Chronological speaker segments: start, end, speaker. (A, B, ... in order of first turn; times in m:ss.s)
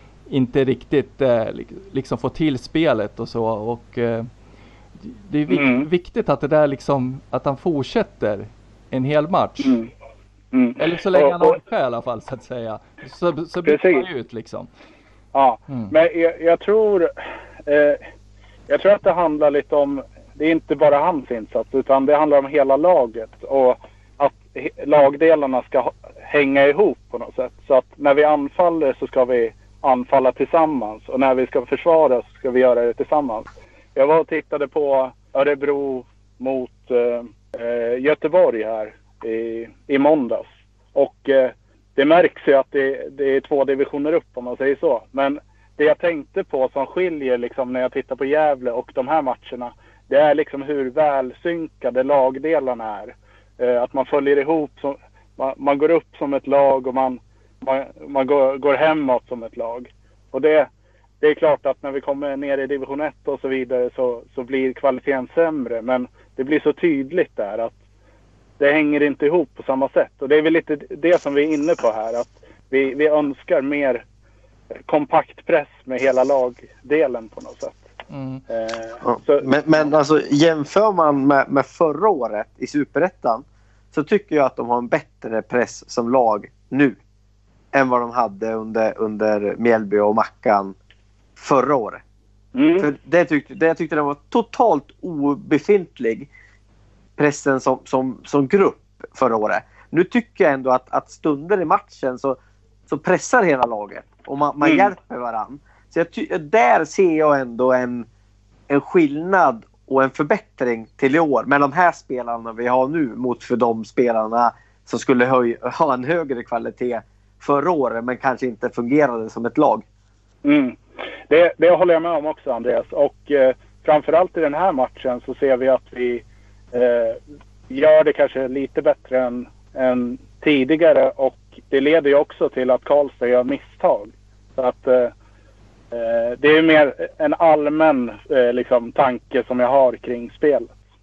0:00.3-0:04.3 A
0:05.0-0:09.8 A
0:05.5-0:05.9 B
0:09.6-0:09.9 B
0:10.5-0:11.6 B
0:10.8-0:14.7 A
0:13.6-0:14.1 B
0:15.3-0:17.1 B
0:17.6-0:18.0 B
0:18.7-1:00.7 B
1:01.2-1:07.7 B
1:08.6-1:14.0 B
1:14.9-1:17.9 B
1:18.1-1:18.4 A
1:18.5-1:19.5 B
1:19.0-1:27.0 C
1:27.7-1:30.7 C
1:31.4-1:32.0 C
1:32.6-1:32.9 B
1:32.8-1:36.3 C
1:37.2-1:48.1 C
1:44.6-1:44.9 B
1:48.7-1:59.8 C
2:00.4-2:15.1 B
2:15.9-2:20.8 B